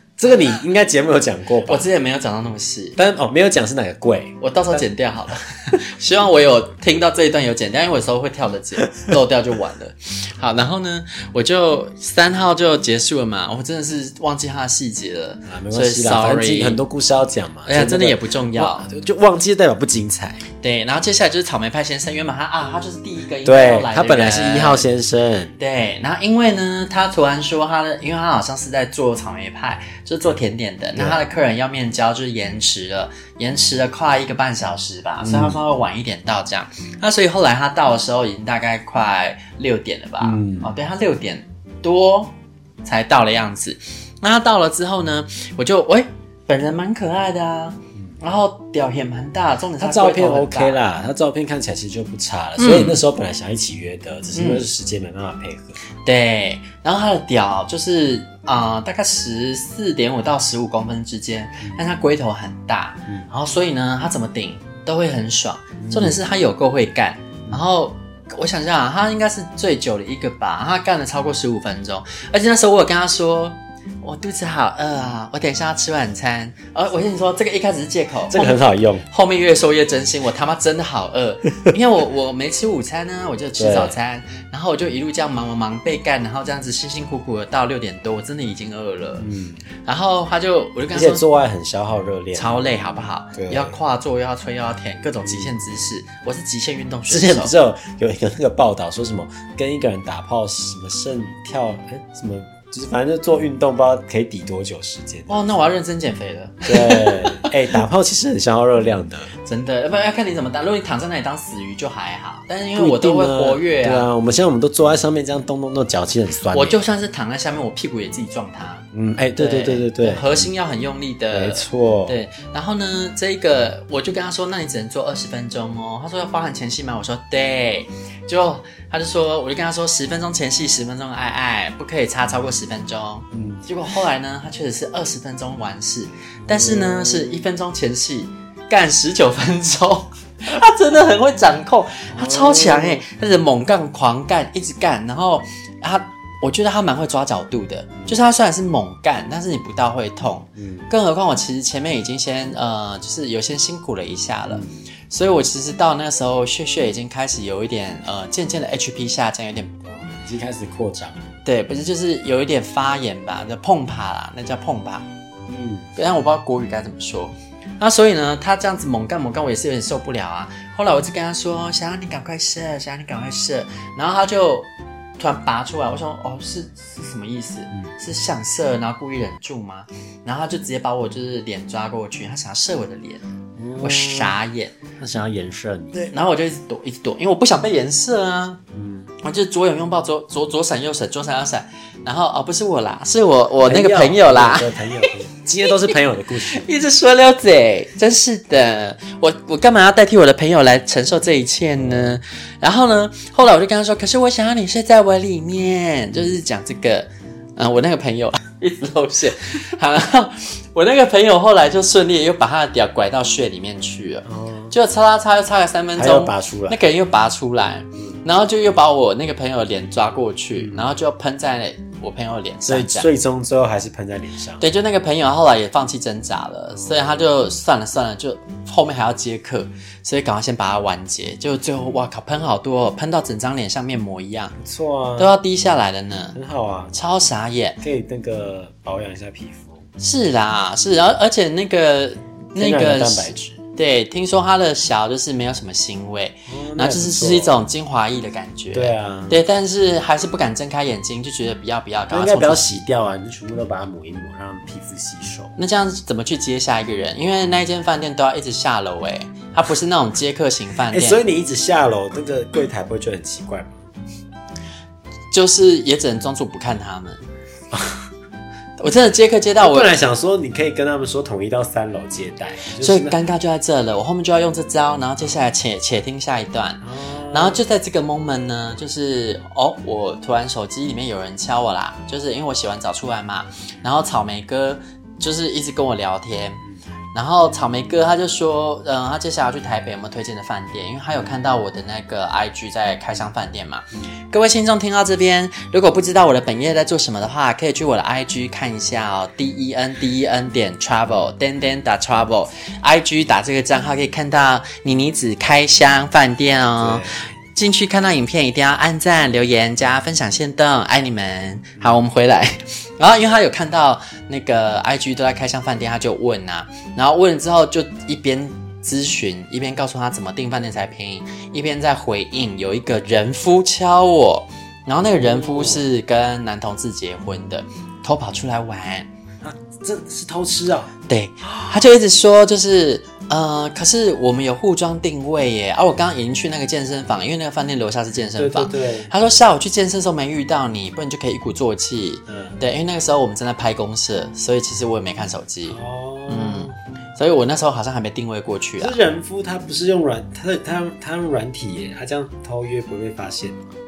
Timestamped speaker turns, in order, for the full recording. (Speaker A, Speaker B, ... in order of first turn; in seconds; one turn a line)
Speaker A: 0.2-1.9
Speaker B: 1.7-3.0
Speaker A: 3.0-4.9
Speaker B: 4.4-16.8
Speaker A: 15.5-20.4
Speaker B: 17.7-18.9
Speaker B: 20.6-24.9
Speaker A: 23.4-25.6
Speaker B: 25.6-50.8
Speaker A: 35.2-35.6
Speaker A: 40.2-40.7
Speaker A: 49.8-55.8
Speaker B: 52.6-53.0
Speaker B: 54.3-54.7
Speaker B: 56.0-89.3
Speaker A: 65.8-66.2
Speaker A: 78.3-79.0
Speaker A: 83.6-84.0
Speaker A: 89.2-89.6
Speaker B: 89.8-91.2
Speaker A: 90.9-92.7
Speaker B: 92.3-97.5
Speaker A: 93.3-93.8
Speaker A: 95.2-95.5
Speaker A: 97.1-105.4
Speaker B: 105.3-107.5
Speaker A: 106.7-109.3
Speaker B: 109.4-114.1
Speaker A: 112.8-116.8
Speaker B: 116.5-159.9
Speaker A: 118.9-120.5
Speaker A: 121.3-122.2
Speaker A: 133.3-133.6
Speaker A: 136.5-137.5
Speaker A: 142.1-143.1
Speaker A: 150.6-150.9
Speaker A: 154.5-154.8
Speaker A: 159.9-161.2
Speaker B: 161.4-165.1
Speaker A: 165.5-165.9
Speaker B: 166.0-183.3
Speaker A: 183.6-184.4
Speaker B: 183.8-184.8
Speaker A: 185.0-186.0
Speaker B: 185.9-188.6
Speaker A: 188.7-189.1
Speaker B: 189.2-195.1
Speaker A: 193.7-196.7
Speaker B: 195.6-195.9
Speaker B: 196.4-223.1
Speaker A: 201.8-202.2
Speaker A: 214.3-214.7
Speaker A: 216.0-216.9
Speaker A: 218.0-218.2
Speaker A: 220.6-220.9
Speaker A: 222.7-224.6
Speaker B: 224.6-234.6
Speaker A: 226.7-227.3
Speaker A: 234.6-235.3
Speaker B: 235.2-236.4
Speaker A: 236.3-236.9
Speaker B: 236.9-237.8
Speaker A: 237.8-239.9
Speaker B: 240.0-252.8
Speaker A: 242.6-243.6
Speaker A: 246.5-247.6
Speaker A: 248.7-249.4
Speaker A: 252.1-255.6
Speaker B: 255.6-261.2
Speaker A: 260.9-263.8
Speaker B: 265.3-267.2
Speaker A: 267.7-268.0
Speaker B: 268.8-269.9
Speaker A: 269.6-273.2
Speaker B: 272.8-286.6
Speaker A: 276.8-277.6
Speaker B: 287.1-329.1
Speaker A: 306.8-307.4
Speaker A: 325.0-325.9
Speaker A: 329.4-331.8
Speaker B: 331.1-349.0
Speaker A: 338.4-339.1
Speaker A: 342.3-342.6
Speaker A: 345.7-346.8
Speaker A: 348.8-353.6